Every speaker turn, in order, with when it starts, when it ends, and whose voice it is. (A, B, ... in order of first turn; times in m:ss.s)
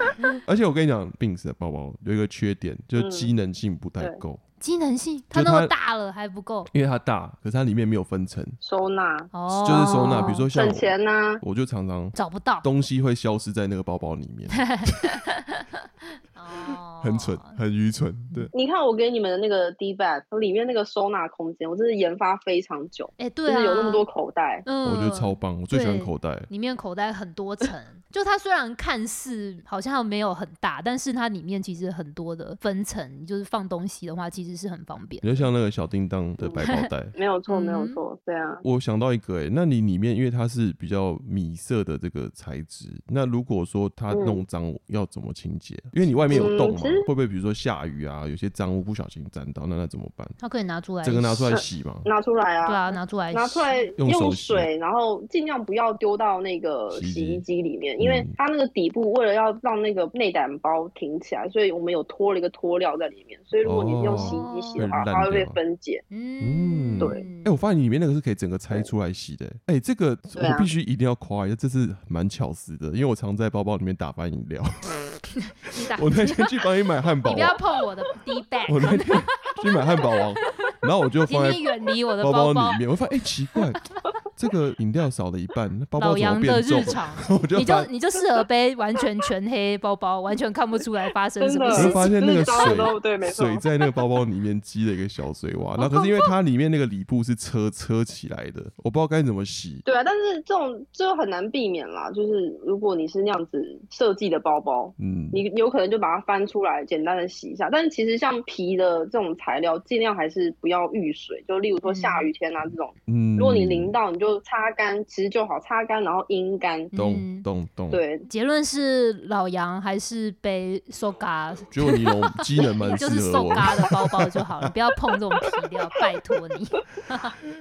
0:00.4-0:04.4 A
0:03.0-0:03.3 B
0:04.6-0:06.7 C
0:05.3-0:05.7 A
0:06.7-0:08.6 A
0:08.6-0:11.4 B
0:09.3-0:10.5 C
0:09.5-0:14.9 A
0:12.2-0:12.7 C
0:14.6-0:15.7 C
0:16.3-0:17.6 C
0:17.0-0:18.5 A
0:18.5-0:24.7 B
0:23.2-0:24.0 C
0:24.6-0:35.5 C
0:24.8-0:26.5 A
0:35.2-0:37.1 A
0:36.4-0:38.6 B
0:36.6-0:36.9 C
0:37.5-0:38.0 C
0:38.6-0:50.4 A
0:44.1-0:44.4 B
0:46.3-0:47.1 B
0:50.4-0:51.5 C
0:51.0-0:52.1 A
0:51.5-1:06.0 B
0:52.6-0:53.8 C
0:54.0-0:54.7 A
0:56.9-0:57.4 A
0:58.0-0:58.4 A
1:03.6-1:05.6 A
1:04.1-1:04.9 C
1:06.1-1:07.6 C
1:06.4-1:14.9 A
1:07.0-1:07.2 B
1:10.4-1:10.7 B
1:15.5-1:16.5 C
1:16.0-1:17.6 A
1:17.3-1:19.9 C
1:18.7-1:21.6 A
1:20.4-1:20.7 C
1:21.3-1:22.8 C
1:22.2-1:23.8 A
1:24.4-1:27.9 A
1:26.0-1:32.9 C
1:31.4-1:33.7 B
1:31.7-1:39.8 A
1:35.8-1:36.3 C
1:39.8-1:56.9 B
1:45.0-1:45.4 A
1:51.8-1:52.3 C
1:53.1-1:54.0 A
1:56.9-1:57.5 C
1:56.9-1:58.0 A
1:57.9-1:58.3 B
1:58.3-2:07.4 C
2:01.7-2:04.7 A